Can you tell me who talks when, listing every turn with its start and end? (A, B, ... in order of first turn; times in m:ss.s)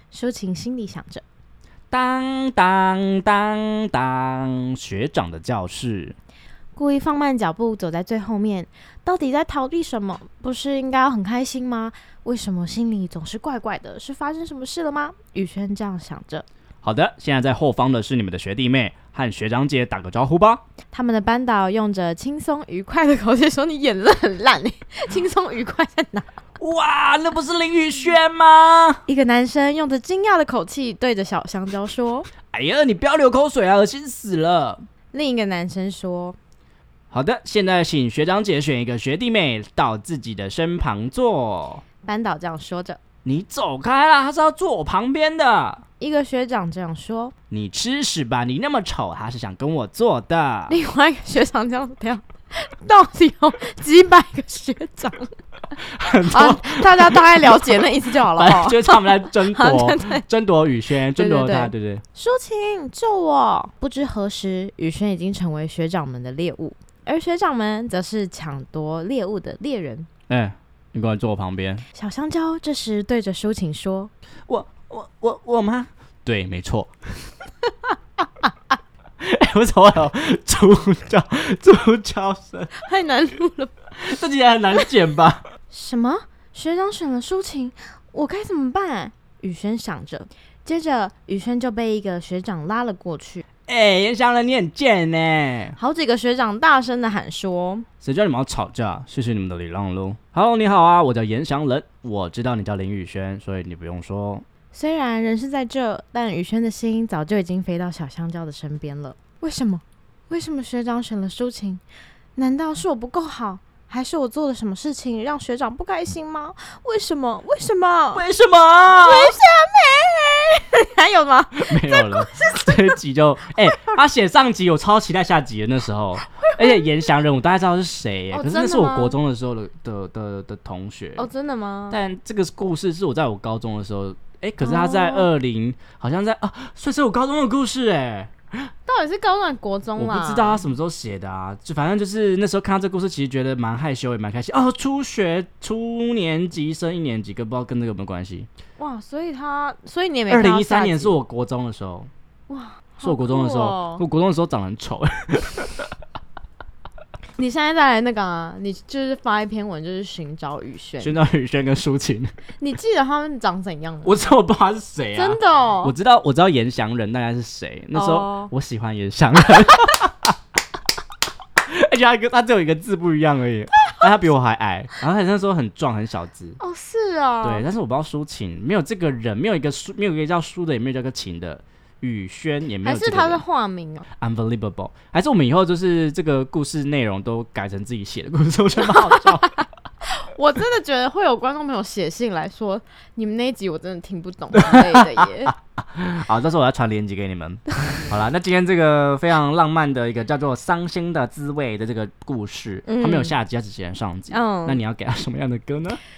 0:00.1-0:01.2 A
0:01.9-0:06.2 B
0:06.8-0:16.4 A
0:16.8-0:20.6 B
0:20.9-0:26.3 A
0:26.6-0:29.0 B
0:29.1-0:32.3 A
0:32.5-0:34.8 B
0:35.1-0:36.4 A
0:37.1-0:41.8 B
0:42.0-0:43.0 A
0:43.2-0:45.8 B
0:46.0-0:47.3 A
0:47.5-0:50.8 B
0:50.7-0:55.3 A
0:55.8-1:02.0 B
0:56.2-1:00.2 A
1:01.2-1:10.1 A
1:10.3-1:11.8 B
1:11.9-1:14.1 A
1:14.5-1:16.9 B
1:19.2-1:22.7 B
1:22.8-1:23.7 A
1:24.0-1:25.4 B
1:25.7-1:33.4 A
1:33.7-1:35.8 B
1:35.8-1:37.9 A
1:38.0-1:44.4 B
1:44.7-1:51.8 A
1:52.4-1:58.2 A
1:58.1-1:59.4 B
1:58.9-2:03.0 A
2:01.6-2:11.3 B
2:03.7-2:04.0 A
2:06.3-2:06.8 A
2:08.3-2:09.2 A
2:11.2-2:12.0 A
2:11.9-2:18.7 B
2:14.6-2:15.3 A
2:18.9-2:20.7 A
2:20.0-2:28.5 B
2:28.8-2:31.2 A
2:30.3-2:32.1 B
2:32.5-2:34.0 A
2:33.0-2:35.9 B
2:37.4-2:41.2 A
2:41.0-2:42.3 B
2:42.6-2:44.2 A
2:44.0-2:50.4 B
2:45.2-2:45.9 A
2:47.9-2:48.5 A
2:51.6-2:56.6 B
2:56.6-2:57.7 A
2:57.4-3:03.4 B
3:02.8-3:04.1 A
3:04.2-3:09.6 B
3:08.8-3:15.5 A
3:14.5-3:26.0 B
3:22.9-3:23.4 A
3:24.3-3:24.8 A